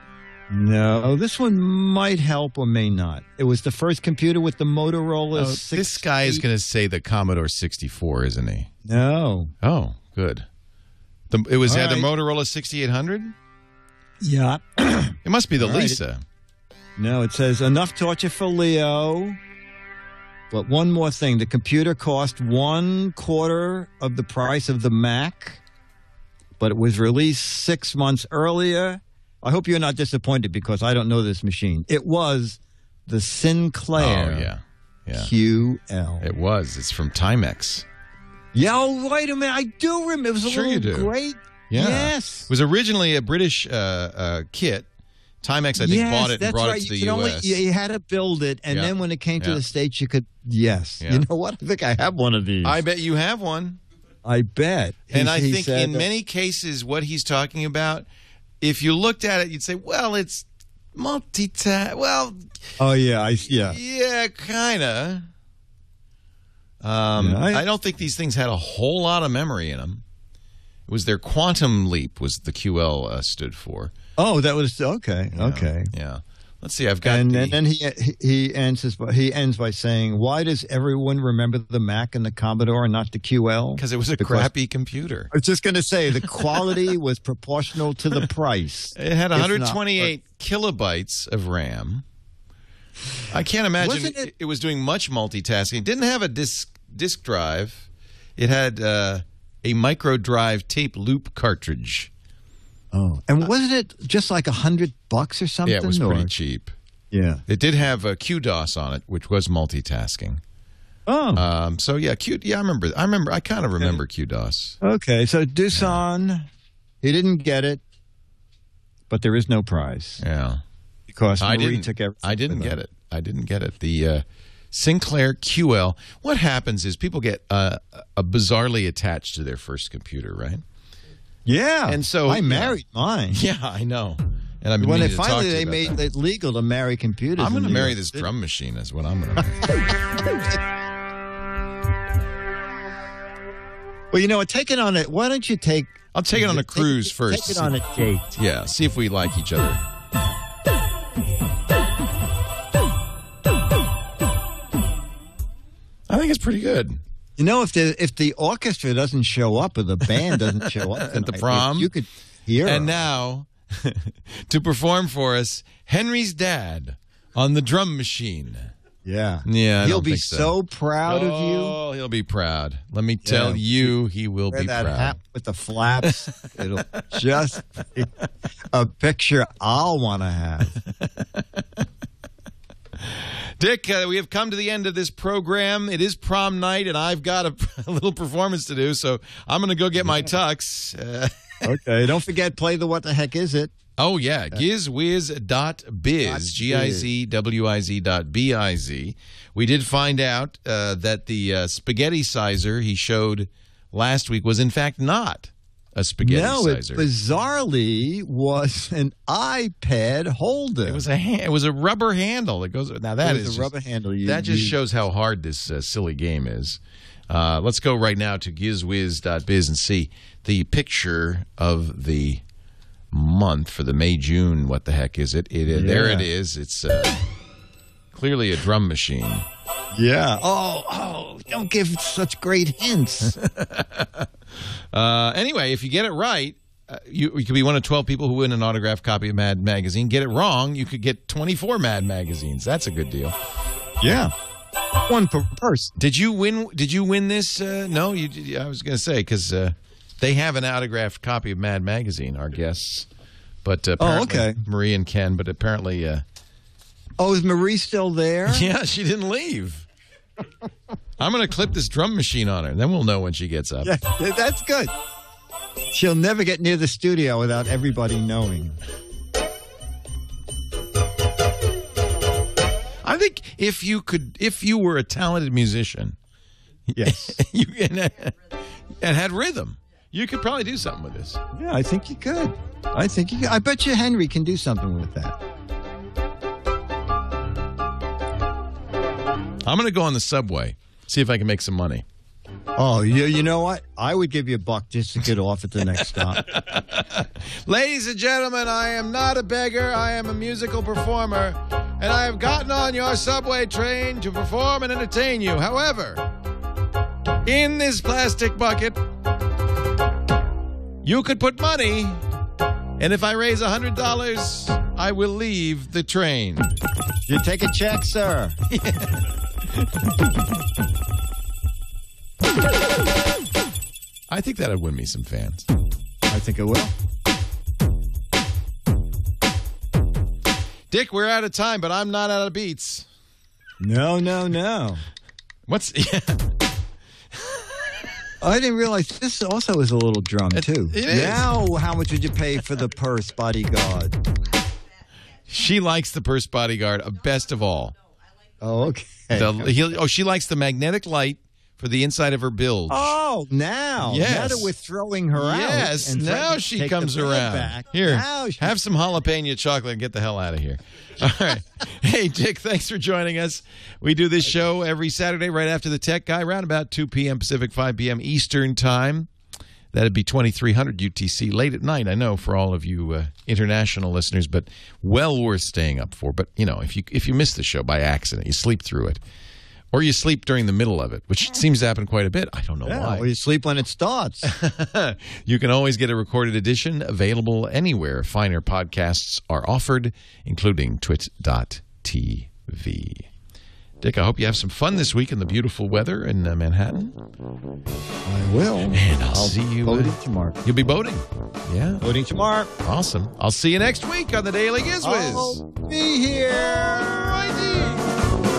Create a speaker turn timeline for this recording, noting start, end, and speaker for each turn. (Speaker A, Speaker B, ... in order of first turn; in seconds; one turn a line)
Speaker A: 0.5-6.4
Speaker B: 5.3-8.7
Speaker A: 8.8-9.5
Speaker B: 9.6-10.5
Speaker B: 11.3-13.3
Speaker A: 11.6-12.1
Speaker A: 14.2-16.0
Speaker B: 15.2-16.2
Speaker A: 17.0-19.4
Speaker A: 20.5-25.6
Speaker A: 26.6-34.5
Speaker B: 34.0-35.3
Speaker A: 35.1-36.3
Speaker B: 36.2-37.9
Speaker A: 38.5-42.5
Speaker B: 40.4-41.1
Speaker B: 41.7-44.9
Speaker B: 45.4-47.6
Speaker A: 45.8-52.8
Speaker B: 48.7-49.6
Speaker B: 52.6-53.8
Speaker A: 54.2-56.1
Speaker B: 55.1-58.1
Speaker B: 58.6-62.4
Speaker A: 62.8-63.8
Speaker B: 63.5-65.3
Speaker B: 66.8-70.0
Speaker A: 67.2-67.6
Speaker B: 70.9-73.9
Speaker A: 74.2-75.9
Speaker B: 75.3-77.6
Speaker A: 77.0-84.5
Speaker B: 83.8-85.3
Speaker A: 85.3-90.1
Speaker B: 89.0-92.0
Speaker B: 93.3-102.1
Speaker A: 93.8-94.3
Speaker A: 102.9-106.3
Speaker B: 105.7-106.7
Speaker A: 107.1-107.4
Speaker B: 107.5-110.4
Speaker A: 111.1-111.5
Speaker B: 111.3-114.8
Speaker A: 114.8-116.5
Speaker B: 115.8-116.0
Speaker A: 117.0-117.8
Speaker A: 119.1-120.2
Speaker B: 120.2-120.6
Speaker A: 121.1-122.8
Speaker B: 121.4-130.6
Speaker A: 131.5-133.4
Speaker B: 131.9-132.8
Speaker B: 133.3-136.0
Speaker A: 134.8-138.3
Speaker B: 137.4-139.6
Speaker A: 144.1-148.3
Speaker B: 146.1-147.8
Speaker B: 148.4-149.8
Speaker B: 156.1-157.0
Speaker A: 157.4-163.0
Speaker B: 160.6-161.9
Speaker B: 162.6-168.7
Speaker A: 169.1-171.8
Speaker B: 169.5-170.6
Speaker B: 171.1-175.2
Speaker A: 173.2-173.9
Speaker A: 174.5-178.1
Speaker B: 176.0-177.2
Speaker A: 178.7-180.8
Speaker B: 180.8-181.8
Speaker B: 183.0-191.8
Speaker A: 191.6-193.7
Speaker B: 194.0-207.1
Speaker A: 196.3-197.1
Speaker A: 206.2-211.0
Speaker B: 210.8-213.7
Speaker A: 213.2-214.8
Speaker B: 214.2-222.4
Speaker B: 223.1-227.2
Speaker A: 225.7-226.3
Speaker B: 228.1-229.4
Speaker A: 229.9-233.4
Speaker B: 233.2-234.3
Speaker B: 234.9-243.4
Speaker A: 244.0-244.3
Speaker A: 245.1-245.9
Speaker B: 246.0-253.1
Speaker B: 253.6-256.2
Speaker A: 254.0-254.6
Speaker A: 257.2-258.7
Speaker B: 258.5-259.9
Speaker B: 261.2-263.9
Speaker A: 263.8-264.9
Speaker A: 265.9-268.8
Speaker B: 273.0-276.2
Speaker A: 276.9-277.4
Speaker B: 277.0-281.4
Speaker A: 281.5-285.4
Speaker B: 289.6-292.1
Speaker A: 292.8-296.5
Speaker B: 295.9-306.3
Speaker B: 307.4-309.0
Speaker B: 311.0-312.2
Speaker B: 313.0-316.7
Speaker A: 317.3-318.6
Speaker B: 318.7-319.9
Speaker B: 324.3-325.6
Speaker A: 326.3-326.9
Speaker B: 330.9-333.1
Speaker A: 333.8-335.0
Speaker B: 335.7-336.5
Speaker B: 337.3-337.9
Speaker A: 338.4-344.2
Speaker B: 340.5-341.5
Speaker B: 345.5-347.9
Speaker A: 348.6-349.7
Speaker B: 349.3-353.2
Speaker A: 352.9-358.8
Speaker B: 354.0-354.7
Speaker B: 355.4-369.3
Speaker B: 369.9-379.2
Speaker B: 379.9-383.3
Speaker A: 382.9-384.5
Speaker B: 384.4-393.3
Speaker B: 394.0-397.2
Speaker A: 398.3-400.6
Speaker B: 398.9-402.1
Speaker A: 402.0-402.7
Speaker B: 402.8-405.6
Speaker A: 405.0-408.1